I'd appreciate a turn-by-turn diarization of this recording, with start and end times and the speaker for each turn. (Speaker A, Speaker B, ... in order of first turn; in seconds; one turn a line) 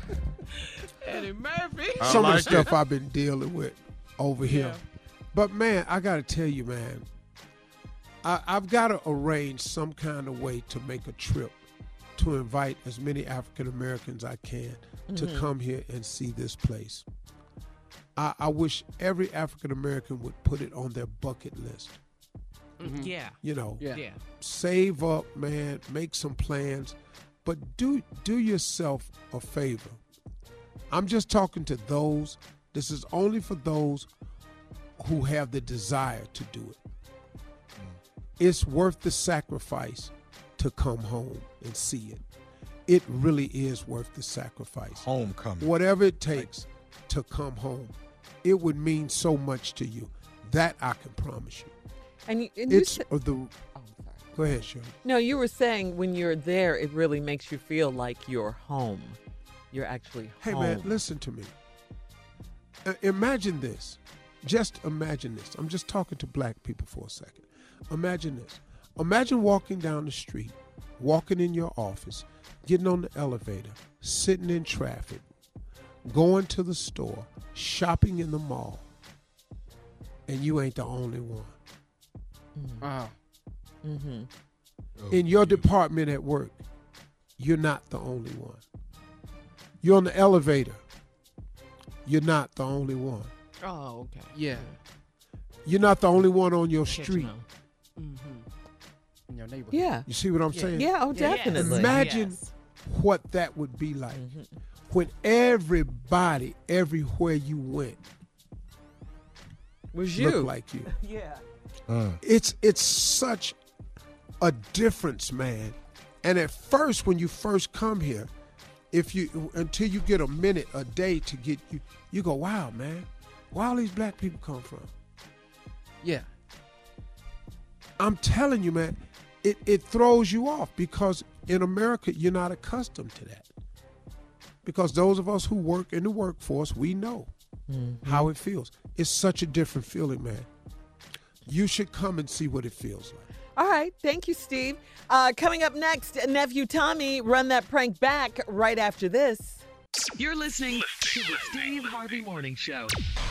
Speaker A: 1.1-2.1
Speaker B: 2.0-2.7
Speaker C: 2.0-4.8
Speaker A: 4.5-4.8
Speaker C: 5.3-7.1
Speaker C: 8.2-11.6
Speaker C: 12.2-17.1
Speaker D: 15.1-15.5
Speaker C: 18.2-22.0
Speaker A: 22.8-23.4
Speaker E: 22.8-23.1
Speaker C: 23.4-30.0
Speaker E: 23.8-24.1
Speaker A: 23.9-24.2
Speaker C: 30.9-34.1
Speaker C: 35.0-36.8
Speaker C: 38.4-42.2
Speaker C: 42.9-45.1
Speaker B: 45.0-45.7
Speaker C: 45.6-51.7
Speaker D: 52.3-53.0
Speaker C: 52.7-53.6
Speaker C: 54.4-54.9
Speaker D: 55.0-59.2
Speaker D: 59.7-60.9
Speaker C: 60.4-61.5
Speaker C: 62.9-75.3
Speaker C: 76.0-78.9
Speaker C: 80.3-81.6
Speaker D: 82.6-82.8
Speaker E: 82.8-83.1
Speaker D: 83.8-84.3
Speaker B: 85.0-85.7
Speaker C: 85.1-86.6
Speaker C: 87.4-88.6
Speaker C: 89.8-90.8
Speaker C: 92.0-93.3
Speaker A: 93.6-94.7
Speaker E: 94.3-94.7
Speaker C: 95.7-97.3
Speaker A: 96.9-97.4
Speaker A: 98.0-98.4
Speaker E: 99.3-99.9
Speaker D: 99.7-100.1
Speaker C: 100.1-104.2
Speaker A: 100.5-102.5
Speaker D: 100.7-102.0
Speaker D: 104.1-104.5
Speaker C: 104.9-108.0
Speaker D: 109.9-111.4
Speaker C: 110.1-110.9
Speaker B: 111.9-112.2
Speaker C: 112.2-113.6
Speaker C: 114.4-118.3
Speaker C: 118.9-124.9
Speaker C: 128.0-133.5
Speaker C: 134.6-137.3
Speaker D: 137.7-138.3
Speaker C: 138.0-140.5
Speaker C: 141.5-143.3
Speaker D: 143.6-149.7
Speaker F: 150.2-152.9